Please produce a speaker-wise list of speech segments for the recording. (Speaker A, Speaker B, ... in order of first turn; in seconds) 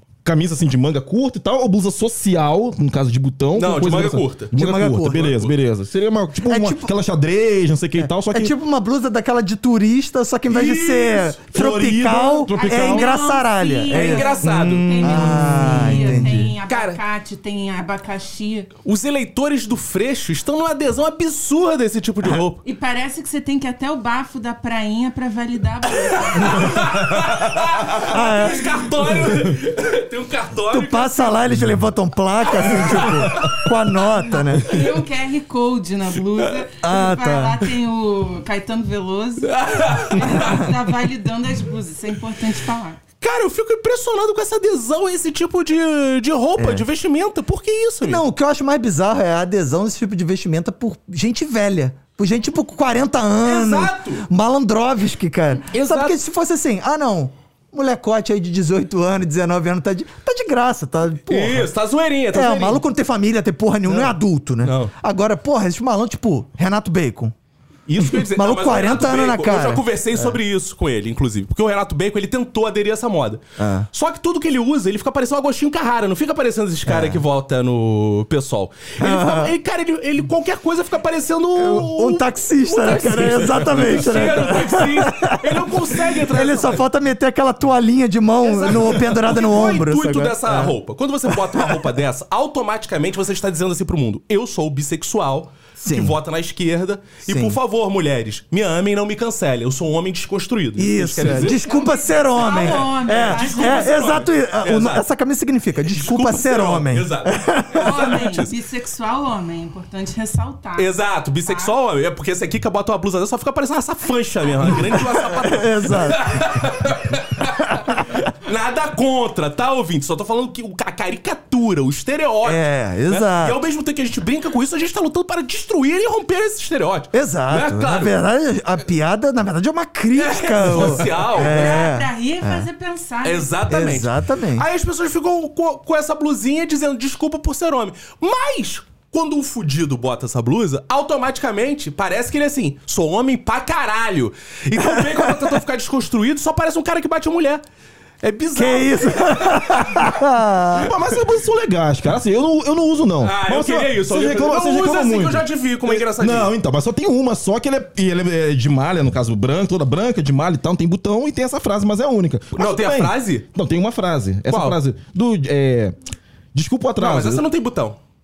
Speaker A: 0.2-8.5, 11.5-13.1, 15.1-16.3, 150.7-166.0, 166.5-167.4
Speaker B: 3.5-4.5, 5.0-5.5, 10.5-11.3, 13.9-15.6, 16.7-17.0, 18.8-22.6, 26.1-31.4, 32.5-34.1, 34.6-34.9, 39.4-40.7, 43.2-48.2, 53.4-54.2, 55.7-56.1, 61.3-62.8, 63.9-64.9, 67.9-86.8, 88.4-101.6, 102.4-105.0, 105.9-108.5, 110.8-128.1, 130.2-131.8, 133.2-147.6, 148.2-150.1, 153.2-156.5, 162.5-163.4, 164.5-164.8, 167.0-168.0
Speaker C: 4.5-5.2, 6.4-6.9, 8.0-16.5, 27.9-28.8, 30.7-34.7, 36.8-37.7, 46.6-46.9, 48.0-61.7, 62.3-67.3, 68.0-70.3, 73.6-73.9, 76.8-77.2, 79.0-79.5, 81.5-90.7, 91.3-91.8, 95.8-96.2, 97.2-97.6, 100.8-108.1, 114.6-116.5, 117.7-118.1, 122.4-123.6, 127.1-132.7, 133.7-134.6, 144.8-145.6, 148.5-150.9
Speaker D: 12.5-18.7, 22.6-26.9, 34.6-43.0, 101.3-104.2, 107.7-111.7, 131.3-133.6